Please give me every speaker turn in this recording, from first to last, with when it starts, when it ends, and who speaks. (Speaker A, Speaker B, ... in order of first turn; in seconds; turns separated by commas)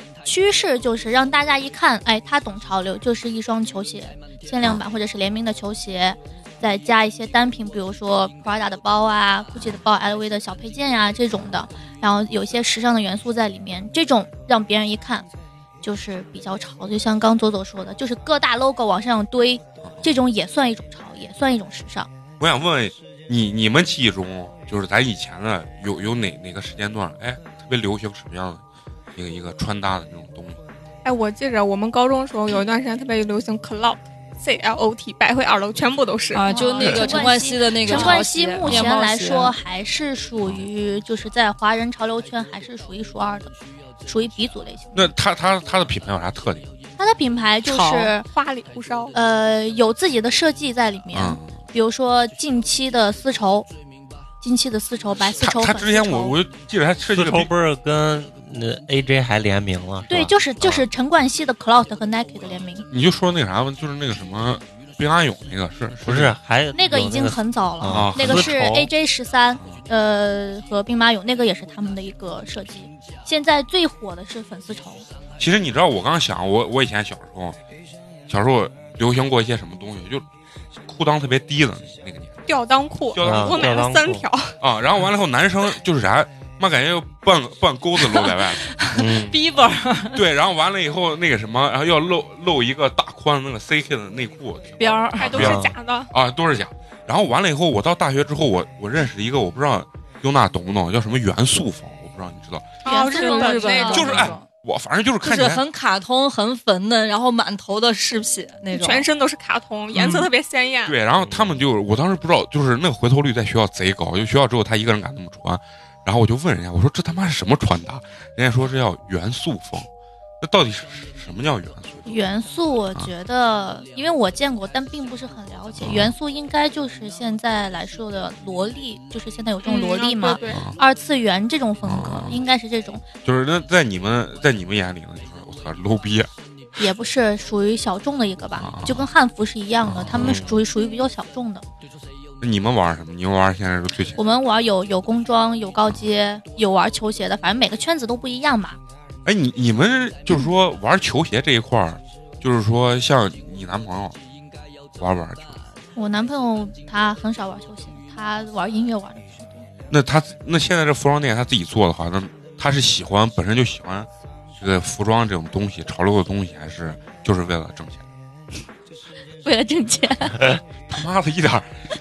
Speaker A: 0.2-15.3, Speaker A: 15.8-22.1, Speaker B: 19.8-20.2, Speaker B: 22.4-28.6, Speaker B: 29.1-30.6, Speaker C: 31.1-37.1, Speaker D: 36.3-39.6, Speaker A: 36.5-43.5, Speaker B: 37.8-38.9, Speaker A: 44.0-45.1, Speaker B: 45.0-46.7, Speaker A: 47.0-48.3, Speaker D: 47.7-48.1, Speaker C: 47.9-49.1, Speaker A: 49.1-53.7, Speaker B: 51.1-51.6, Speaker A: 54.4-56.4, Speaker B: 55.4-57.5, Speaker E: 57.1-60.9, Speaker A: 60.1-62.9, Speaker B: 62.9-66.4, Speaker E: 66.0-68.9, Speaker A: 66.7-75.1, Speaker B: 67.9-68.6, Speaker B: 75.4-77.6, Speaker B: 78.3-80.2, Speaker B: 80.9-82.4, Speaker C: 82.5-84.5, Speaker B: 83.1-83.9, Speaker E: 83.2-84.3, Speaker B: 84.6-88.8, Speaker D: 88.8-90.2, Speaker E: 88.9-89.4, Speaker B: 90.1-102.7, Speaker D: 94.8-95.5, Speaker C: 95.2-96.1, Speaker E: 95.3-95.7, Speaker A: 102.8-104.1, Speaker C: 102.8-104.3, Speaker D: 102.9-104.5, Speaker B: 103.9-105.6, Speaker D: 105.2-109.1, Speaker C: 108.7-111.0, Speaker B: 110.9-119.9, Speaker E: 111.2-111.6, Speaker B: 120.4-122.3, Speaker A: 122.1-133.0, Speaker B: 125.8-126.2, Speaker C: 129.7-130.6, Speaker B: 130.5-130.8, Speaker B: 131.8-132.4, Speaker B: 133.2-136.3, Speaker A: 136.8-141.7, Speaker B: 138.6-139.1, Speaker B: 139.8-140.5, Speaker E: 140.2-140.6, Speaker B: 142.4-144.2, Speaker A: 144.2-148.8, Speaker B: 149.2-154.2, Speaker B: 155.0-155.6, Speaker A: 156.0-159.7, Speaker B: 159.9-168.1, Speaker A: 169.4-170.5, Speaker B: 170.9-171.8